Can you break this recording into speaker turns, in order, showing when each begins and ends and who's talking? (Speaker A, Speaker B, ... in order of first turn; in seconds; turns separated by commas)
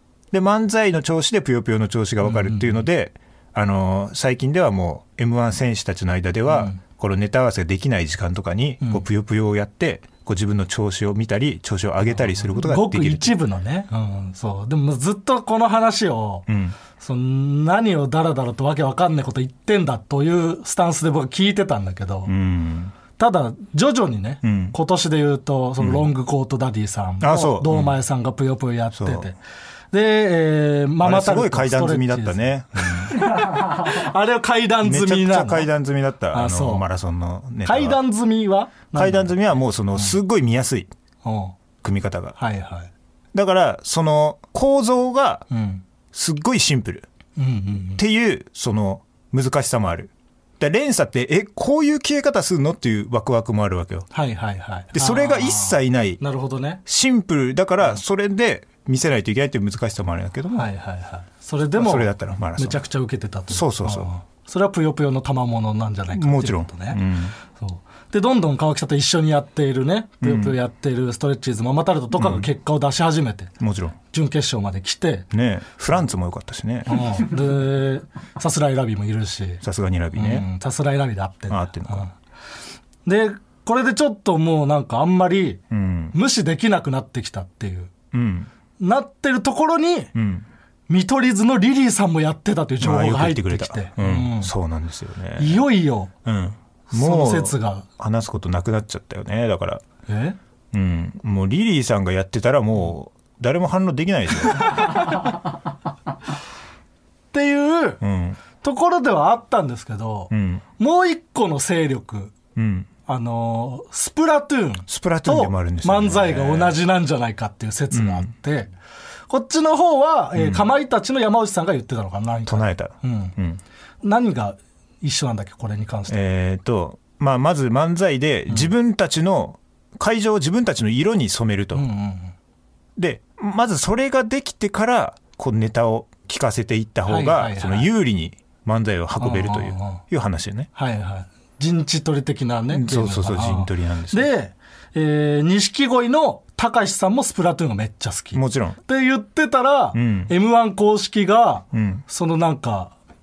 Speaker A: 0.3-13.3, Speaker B: 2.2-2.8, Speaker B: 6.5-6.8, Speaker B: 12.4-22.3, Speaker A: 16.5-16.8, Speaker A: 22.2-22.9, Speaker B: 23.1-29.4, Speaker A: 24.4-24.7, Speaker A: 25.8-26.1, Speaker A: 27.2-27.9, Speaker A: 28.9-29.3, Speaker B: 29.9-35.7, Speaker A: 31.0-33.2, Speaker A: 34.8-38.0, Speaker B: 36.3-36.9, Speaker B: 37.6-39.3, Speaker A: 38.9-40.9, Speaker B: 41.2-41.5, Speaker A: 41.8-42.3, Speaker B: 42.4-42.9, Speaker A: 43.3-45.5, Speaker B: 45.5-45.8, Speaker A: 46.1-47.0, Speaker B: 47.4-48.0, Speaker A: 48.0-54.1, Speaker B: 54.1-56.8, Speaker A: 54.9-56.2, Speaker A: 56.9-60.7, Speaker B: 60.5-73.5, Speaker A: 61.8-62.8, Speaker A: 63.5-64.1, Speaker A: 66.1-67.3, Speaker A: 70.2-70.6, Speaker A: 72.1-72.5, Speaker A: 73.6-74.0, Speaker B: 74.1-75.3, Speaker A: 75.3-77.0, Speaker B: 76.9-79.6, Speaker A: 79.6-80.5, Speaker B: 80.1-82.1, Speaker A: 81.5-82.1, Speaker B: 83.0-85.6, Speaker A: 85.7-86.1, Speaker B: 86.1-87.9, Speaker A: 88.1-88.5, Speaker B: 88.8-90.1, Speaker A: 90.1-90.5, Speaker B: 90.9-94.5, Speaker A: 92.8-95.7, Speaker B: 95.4-96.1, Speaker A: 96.2-99.8, Speaker B: 96.9-97.9, Speaker B: 100.1-100.4, Speaker A: 100.7-104.9, Speaker B: 107.3-108.0, Speaker A: 108.0-108.4, Speaker B: 108.6-112.3, Speaker A: 110.3-110.6, Speaker A: 112.5-112.9, Speaker B: 113.1-118.7, Speaker A: 114.9-116.8, Speaker A: 117.9-118.3, Speaker B: 119.3-123.3, Speaker A: 120.3-120.7, Speaker A: 122.5-123.6, Speaker B: 124.0-126.3, Speaker A: 126.1-131.9, Speaker B: 131.7-132.3, Speaker A: 132.9-140.7, Speaker B: 137.1-137.9, Speaker B: 139.2-140.0, Speaker B: 140.7-152.9, Speaker A: 142.7-144.3, Speaker A: 148.3-148.8, Speaker A: 149.9-150.3, Speaker A: 151.7-152.0